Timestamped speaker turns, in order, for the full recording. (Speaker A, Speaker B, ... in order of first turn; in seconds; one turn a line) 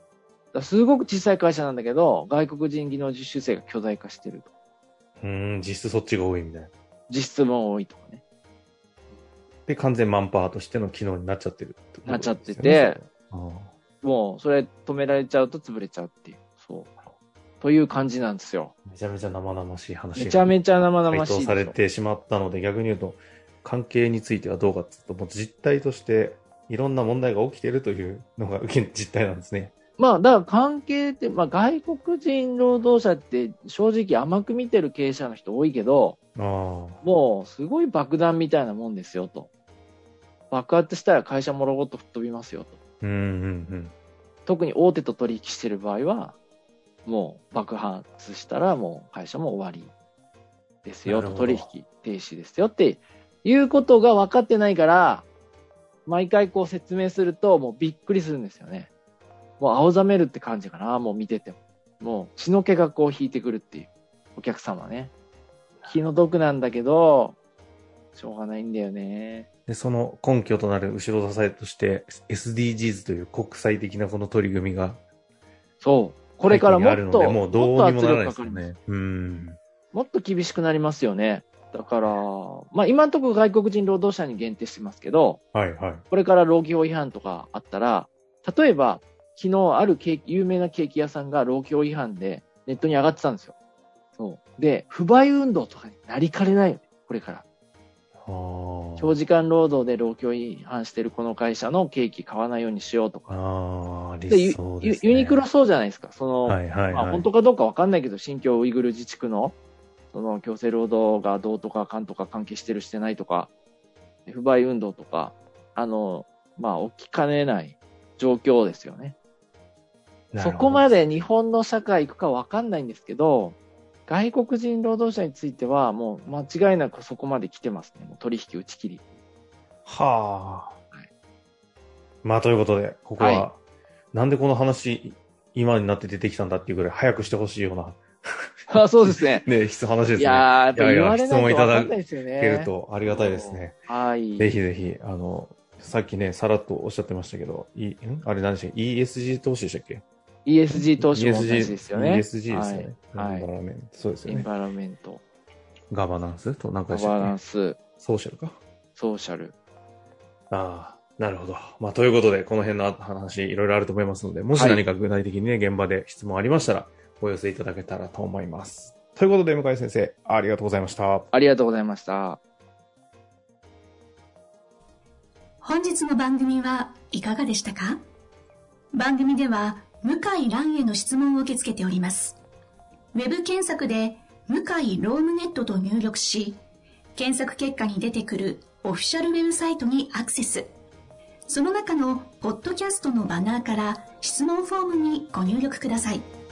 Speaker A: 0.5-4.5
Speaker B: 5.2-6.7
Speaker A: 7.1-8.2
Speaker B: 9.7-13.7
Speaker A: 12.1-13.0
Speaker A: 14.0-16.9
Speaker A: 17.6-18.7
Speaker B: 18.9-29.7
Speaker A: 20.1-21.8
Speaker A: 30.0-36.2
Speaker B: 36.4-37.0
Speaker A: 37.0-39.5
Speaker A: 40.5-42.8
Speaker B: 43.0-43.9
Speaker A: 44.5-46.4
Speaker A: 47.0-49.9
Speaker A: 50.9-55.3
Speaker B: 51.1-51.7
Speaker A: 56.1-58.9
Speaker A: 59.6-65.1
Speaker A: 65.8-67.4
Speaker A: 68.1-69.5
Speaker B: 69.7-75.0
Speaker A: 75.8-78.7
Speaker B: 76.5-79.6
Speaker A: 79.9-85.4
Speaker B: 85.5-86.0
Speaker A: 86.1-93.5
Speaker A: 94.2-97.4
Speaker B: 98.2-99.2
Speaker A: 99.0-103.3
Speaker B: 103.3-105.4
Speaker A: 104.3-109.6
Speaker B: 106.5-107.3
Speaker A: 110.1-113.5
Speaker A: 114.3-119.2
Speaker B: 120.3-121.0
Speaker A: 120.4-129.0
Speaker B: 129.9-130.8
Speaker B: 132.2-133.6
Speaker A: 133.2-133.5
Speaker B: 134.1-143.8
Speaker A: 138.7-139.5
Speaker A: 140.2-144.5
Speaker B: 144.4-150.0
Speaker A: 150.4-153.5
Speaker B: 150.7-154.5
Speaker A: 154.2-155.2
Speaker B: 155.9-157.4
Speaker A: 156.9-157.8
Speaker B: 158.0-158.6
Speaker A: 158.9-159.5
Speaker B: 160.5-171.3
Speaker A: 164.5-164.8
Speaker A: 171.3-172.4
Speaker C: 175.6-178.0
Speaker C: 178.9-182.4
Speaker C: 183.1-186.6
Speaker C: 187.2-190.7
Speaker C: 191.5-196.3